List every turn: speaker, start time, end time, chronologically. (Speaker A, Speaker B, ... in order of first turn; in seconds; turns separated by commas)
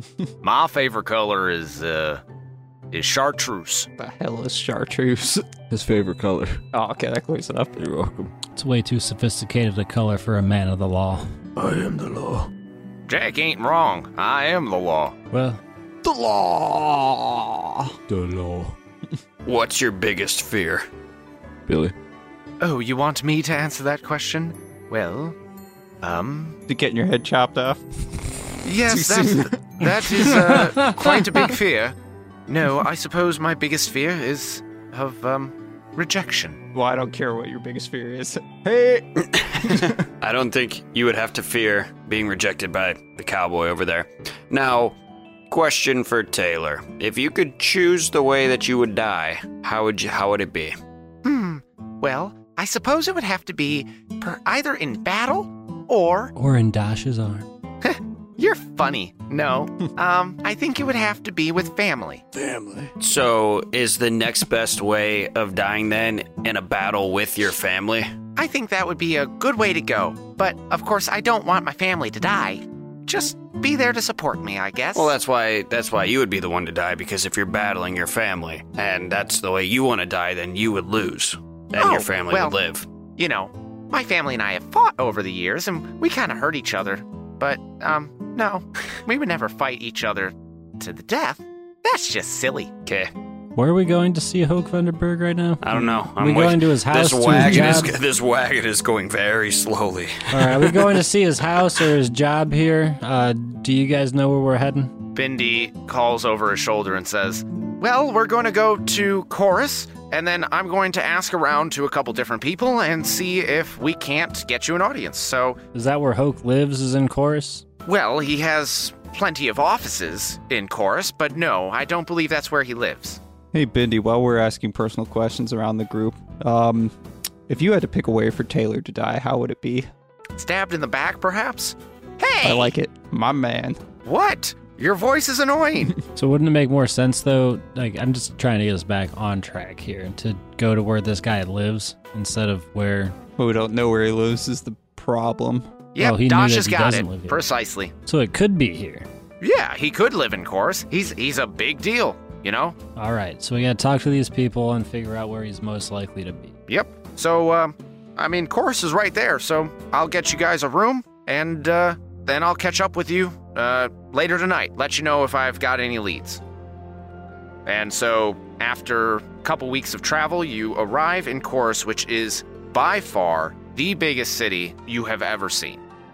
Speaker A: 0.4-2.2, Speaker A: 2.9-3.9, Speaker B: 4.0-5.5, Speaker C: 5.7-6.6, Speaker B: 6.7-7.8, Speaker C: 7.8-8.3, Speaker D: 8.6-11.3, Speaker C: 11.6-12.5, Speaker A: 13.1-15.2, Speaker D: 15.3-15.6, Speaker C: 16.2-17.4, Speaker C: 18.1-18.8, Speaker E: 19.4-20.9, Speaker C: 21.7-21.9, Speaker A: 22.6-25.4, Speaker A: 26.0-26.6, Speaker B: 26.7-27.9, Speaker A: 28.6-31.9, Speaker B: 28.9-29.6, Speaker B: 30.1-30.5, Speaker A: 32.5-36.6, Speaker B: 36.7-40.0, Speaker E: 39.2-45.0, Speaker E: 45.5-50.8, Speaker A: 51.2-56.3, Speaker D: 56.4-57.5, Speaker A: 57.8-62.2, Speaker C: 62.3-62.9, Speaker E: 63.0-68.1, Speaker A: 68.4-75.2, Speaker E: 75.0-82.9, Speaker A: 81.8-82.6, Speaker A: 83.2-92.7, Speaker E: 92.9-93.1, Speaker D: 93.5-98.0, Speaker E: 95.6-101.0, Speaker D: 100.3-105.0, Speaker A: 105.2-115.6, Speaker D: 115.7-117.6, Speaker A: 117.8-123.2, Speaker B: 123.5-127.0, Speaker B: 127.5-129.9, Speaker A: 130.4-132.7, Speaker B: 132.4-133.8, Speaker A: 134.1-136.0, Speaker D: 136.2-143.2, Speaker B: 143.4-145.7, Speaker A: 145.9-147.9, Speaker D: 146.0-147.4, Speaker D: 148.1-149.1, Speaker A: 149.4-152.8, Speaker D: 153.0-156.6, Speaker A: 156.7-166.4, Speaker A: 167.7-175.8